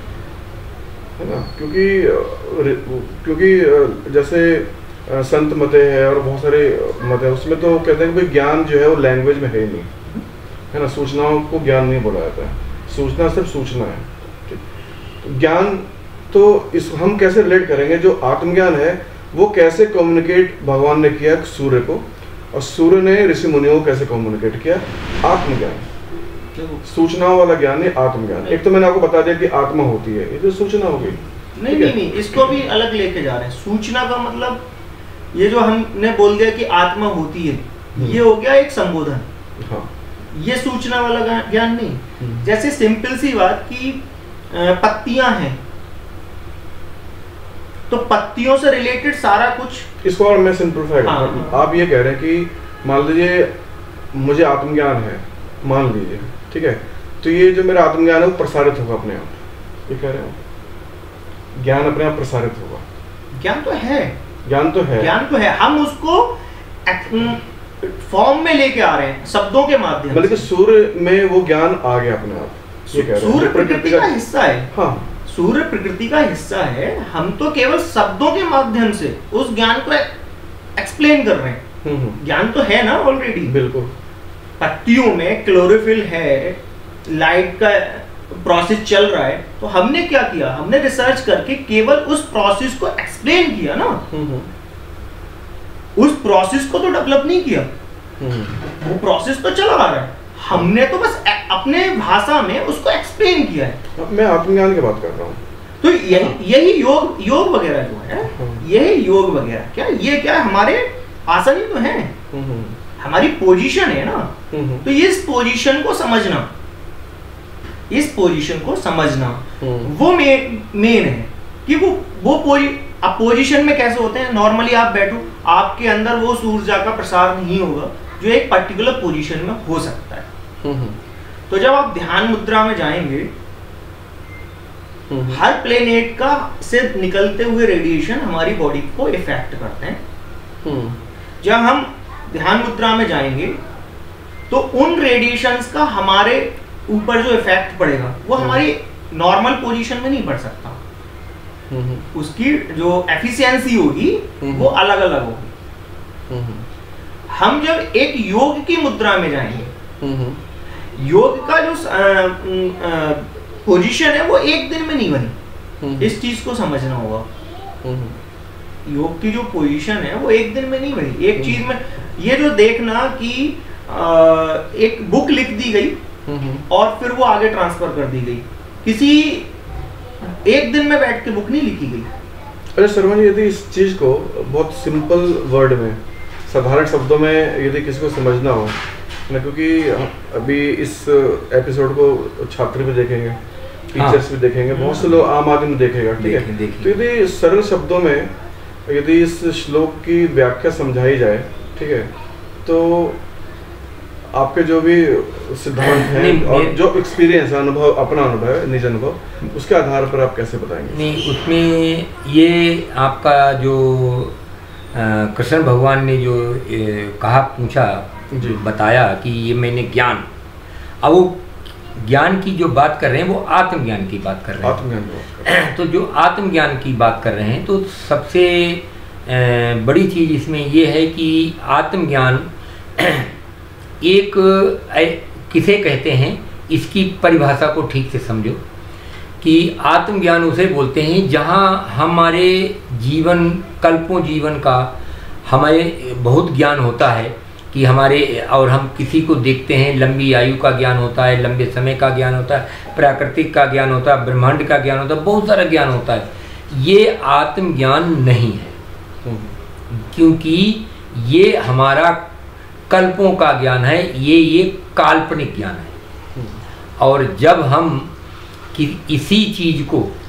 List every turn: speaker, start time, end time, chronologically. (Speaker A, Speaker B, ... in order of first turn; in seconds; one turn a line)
Speaker A: 1.2-9.9
Speaker A: 10.7-14.6
Speaker A: 15.2-25.9
Speaker B: 26.6-26.8
Speaker A: 26.8-32.0
Speaker B: 31.6-34.6
Speaker B: 35.3-39.3
Speaker A: 39.6-39.9
Speaker B: 40.3-45.6
Speaker A: 42.2-42.5
Speaker B: 47.9-49.9
Speaker A: 50.0-53.5
Speaker B: 51.0-51.7
Speaker A: 54.1-60.4
Speaker A: 61.5-62.9
Speaker B: 63.3-64.2
Speaker A: 64.5-65.1
Speaker B: 65.0-70.5
Speaker A: 70.1-74.2
Speaker B: 72.9-74.7
Speaker A: 74.7-75.1
Speaker B: 75.3-80.1
Speaker B: 80.8-81.6
Speaker A: 81.8-82.2
Speaker B: 82.2-83.6
Speaker A: 83.5-83.9
Speaker B: 84.6-94.0
Speaker A: 94.1-94.5
Speaker B: 96.0-97.7
Speaker A: 98.2-98.6
Speaker B: 98.7-103.8
Speaker A: 104.0-105.4
Speaker B: 105.8-112.2
Speaker A: 108.3-108.7
Speaker A: 112.3-112.8
Speaker B: 113.0-116.5
Speaker A: 114.5-114.9
Speaker B: 117.9-130.3
Speaker A: 119.6-119.9
Speaker A: 130.6-131.0
Speaker B: 131.5-133.3
Speaker A: 135.1-135.4
Speaker B: 135.3-140.0
Speaker A: 140.6-141.0
Speaker B: 141.4-143.6
Speaker B: 144.5-150.8
Speaker A: 148.4-148.6
Speaker A: 151.7-152.1
Speaker B: 152.1-155.5
Speaker A: 154.4-154.7
Speaker A: 156.3-156.7
Speaker B: 157.3-159.7
Speaker A: 160.0-160.4
Speaker B: 161.0-165.3
Speaker A: 165.8-166.1
Speaker B: 166.0-167.3
Speaker A: 167.8-168.2
Speaker B: 168.8-176.0
Speaker A: 171.4-171.6
Speaker A: 176.3-176.7
Speaker B: 176.7-179.5
Speaker B: 180.2-182.1
Speaker A: 182.8-193.4
Speaker A: 193.9-198.3
Speaker C: 194.0-194.2
Speaker C: 196.2-197.0
Speaker A: 198.9-202.1
Speaker A: 202.7-203.2
Speaker A: 204.3-211.2
Speaker C: 205.8-206.8
Speaker C: 210.9-214.3
Speaker C: 214.9-220.3
Speaker A: 218.3-218.6
Speaker C: 221.0-221.4
Speaker C: 222.0-224.8
Speaker A: 224.6-225.6
Speaker C: 225.4-233.3
Speaker C: 234.0-238.6
Speaker C: 239.4-244.9
Speaker C: 245.5-258.8
Speaker A: 259.2-259.5
Speaker C: 259.9-262.2
Speaker C: 262.9-265.9
Speaker C: 267.0-268.1
Speaker C: 268.7-270.1